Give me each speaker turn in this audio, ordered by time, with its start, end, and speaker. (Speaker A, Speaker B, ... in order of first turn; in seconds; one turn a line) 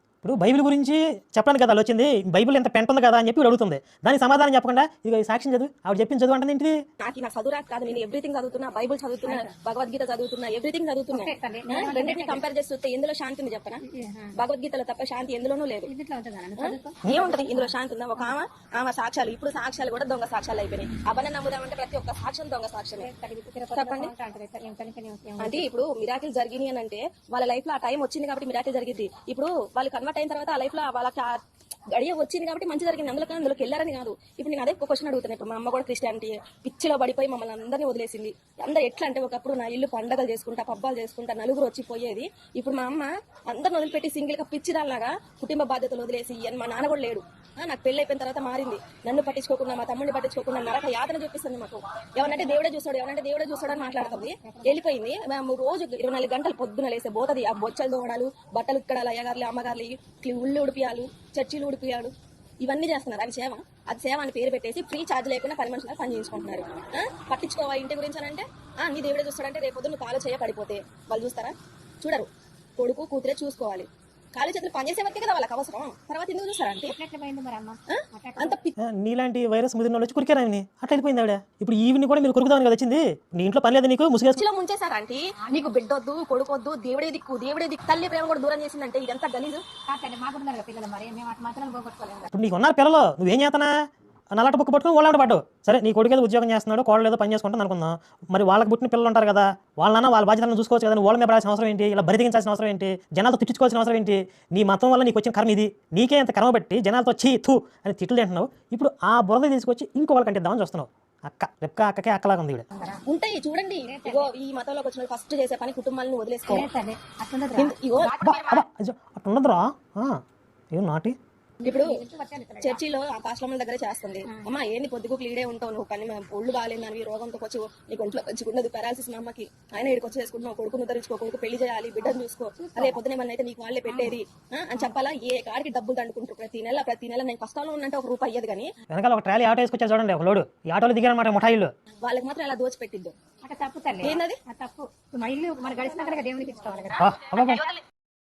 Speaker A: 0.2-6.7
Speaker B: 7.0-13.8
Speaker C: 9.2-9.5
Speaker C: 11.1-12.4
Speaker C: 13.9-14.3
Speaker B: 14.3-15.9
Speaker C: 15.8-18.3
Speaker B: 16.6-23.1
Speaker C: 23.0-25.6
Speaker B: 23.7-24.1
Speaker B: 25.4-31.4
Speaker B: 31.9-76.9
Speaker C: 52.2-52.6
Speaker C: 53.7-54.8
Speaker C: 76.9-78.7
Speaker B: 77.9-78.6
Speaker A: 78.8-84.4
Speaker B: 84.3-89.6
Speaker C: 85.4-85.7
Speaker C: 89.9-92.3
Speaker A: 92.3-93.7
Speaker A: 94.3-112.6
Speaker C: 112.7-113.0
Speaker B: 113.1-116.7
Speaker C: 113.8-114.3
Speaker C: 116.5-118.4
Speaker B: 117.6-118.6
Speaker A: 118.2-120.2
Speaker A: 120.7-121.1
Speaker B: 121.6-121.9
Speaker C: 121.6-122.8
Speaker B: 122.6-138.7
Speaker C: 132.1-133.0
Speaker C: 133.9-134.1
Speaker A: 138.9-141.7
Speaker B: 142.0-143.1
Speaker C: 143.4-147.2
Speaker B: 144.0-144.4
Speaker A: 147.0-147.7
Speaker B: 147.3-147.6